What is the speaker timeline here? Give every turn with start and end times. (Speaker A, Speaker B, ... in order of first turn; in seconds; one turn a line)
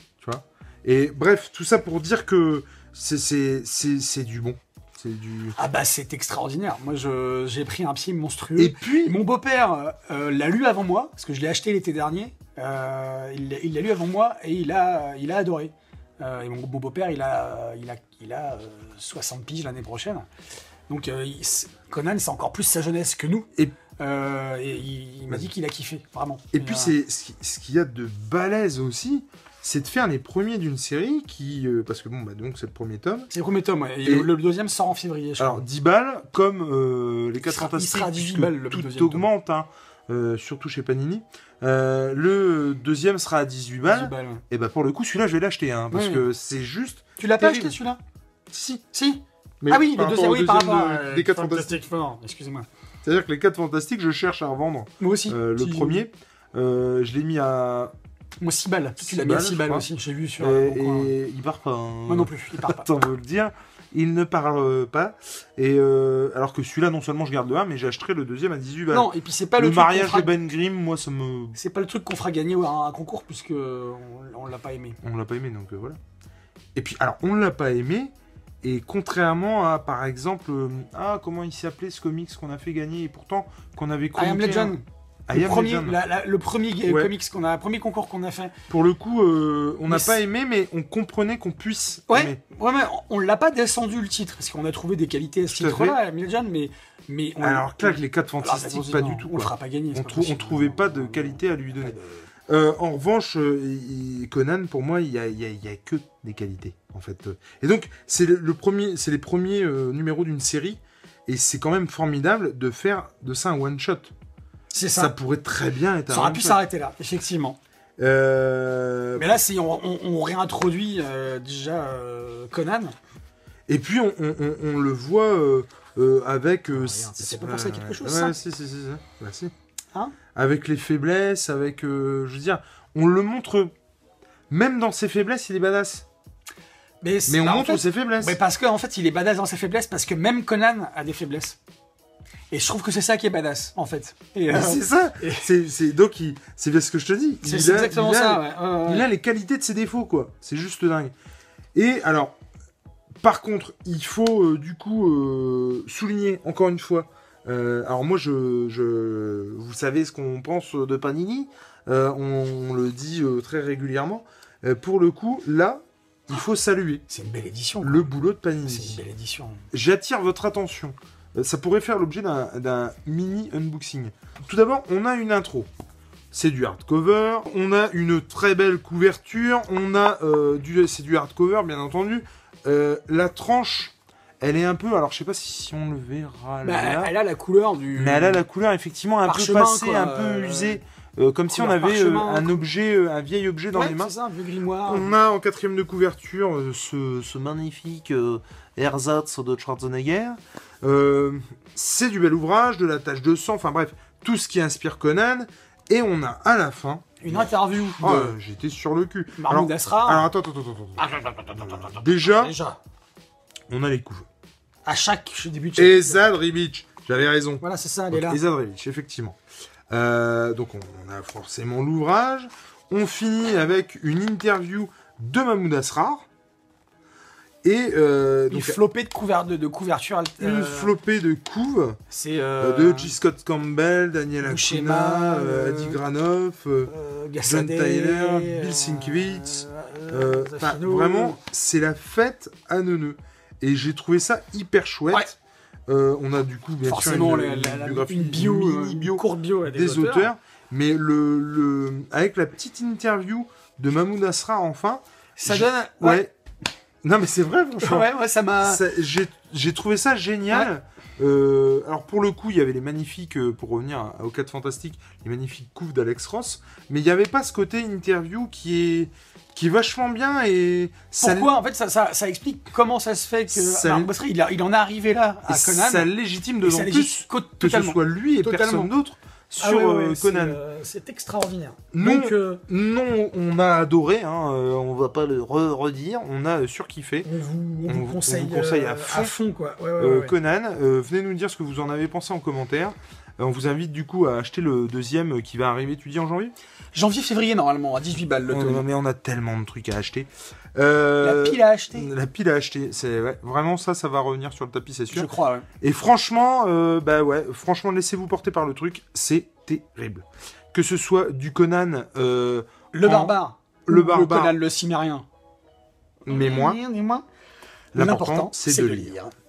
Speaker A: 0.2-5.6
Speaker B: 5.6-20.3
Speaker A: 8.6-9.2
Speaker B: 20.9-26.9
Speaker A: 26.5-33.3
Speaker B: 33.3-35.6
Speaker A: 34.0-34.3
Speaker A: 35.4-47.8
Speaker B: 37.4-39.3
Speaker B: 43.9-44.4
Speaker B: 45.9-46.2
Speaker B: 47.2-48.0
Speaker A: 48.5-48.8
Speaker B: 48.9-52.7
Speaker A: 49.6-51.8
Speaker A: 53.0-57.9
Speaker B: 55.0-56.0
Speaker B: 58.4-61.1
Speaker A: 59.0-59.9
Speaker A: 60.4-71.6
Speaker B: 62.1-62.9
Speaker B: 68.9-70.4
Speaker B: 71.5-75.0
Speaker A: 75.0-76.0
Speaker A: 76.8-78.1
Speaker A: 78.6-84.8
Speaker B: 84.2-88.5
Speaker A: 85.3-86.0
Speaker A: 86.9-87.1
Speaker A: 88.7-92.4
Speaker B: 89.9-90.2
Speaker B: 92.1-102.3
Speaker A: 95.5-96.0
Speaker A: 97.4-102.0
Speaker A: 102.5-114.1
Speaker B: 114.7-115.2
Speaker A: 115.0-116.6
Speaker B: 116.1-117.6
Speaker A: 118.0-119.4
Speaker B: 119.2-123.0
Speaker A: 123.7-129.5
Speaker B: 126.7-128.4
Speaker A: 130.3-133.7
Speaker A: 134.5-136.1
Speaker B: 137.0-141.6
Speaker A: 137.3-138.4
Speaker B: 142.5-145.5
Speaker A: 144.5-151.1
Speaker B: 147.4-149.1
Speaker A: 151.8-152.4
Speaker A: 153.2-167.0
Speaker B: 167.1-168.1
Speaker A: 167.8-169.0
Speaker B: 168.7-169.6
Speaker A: 169.7-175.7
Speaker A: 176.3-187.1
Speaker B: 186.6-188.4
Speaker A: 187.9-194.1
Speaker B: 189.3-190.8
Speaker B: 191.5-192.6
Speaker B: 193.7-195.2
Speaker A: 194.9-212.5
Speaker B: 207.2-208.4
Speaker B: 209.4-210.3
Speaker B: 211.0-212.8
Speaker A: 213.7-214.3
Speaker B: 214.8-216.3
Speaker A: 215.8-219.4
Speaker B: 217.6-218.4
Speaker A: 219.9-226.2
Speaker A: 227.6-228.8
Speaker B: 228.5-230.9
Speaker A: 230.4-232.0
Speaker B: 232.1-233.2
Speaker A: 232.6-236.9
Speaker B: 234.4-236.0
Speaker B: 236.9-241.4
Speaker A: 237.4-245.4
Speaker A: 245.9-256.3
Speaker B: 246.9-250.3
Speaker B: 255.4-256.2
Speaker A: 257.0-271.5
Speaker B: 257.8-258.8
Speaker B: 271.2-276.1
Speaker A: 273.5-274.1
Speaker A: 275.5-280.6
Speaker B: 276.6-278.9
Speaker B: 279.6-282.6
Speaker A: 281.9-287.3
Speaker B: 287.2-290.4
Speaker A: 287.9-289.3
Speaker A: 290.0-296.5
Speaker B: 296.9-298.8
Speaker A: 298.5-305.3
Speaker B: 301.2-302.1
Speaker B: 305.1-305.7
Speaker A: 305.8-313.4
Speaker B: 312.9-315.2
Speaker A: 313.9-314.6
Speaker A: 316.3-316.8
Speaker B: 316.3-317.2
Speaker A: 317.9-319.1
Speaker B: 317.9-319.3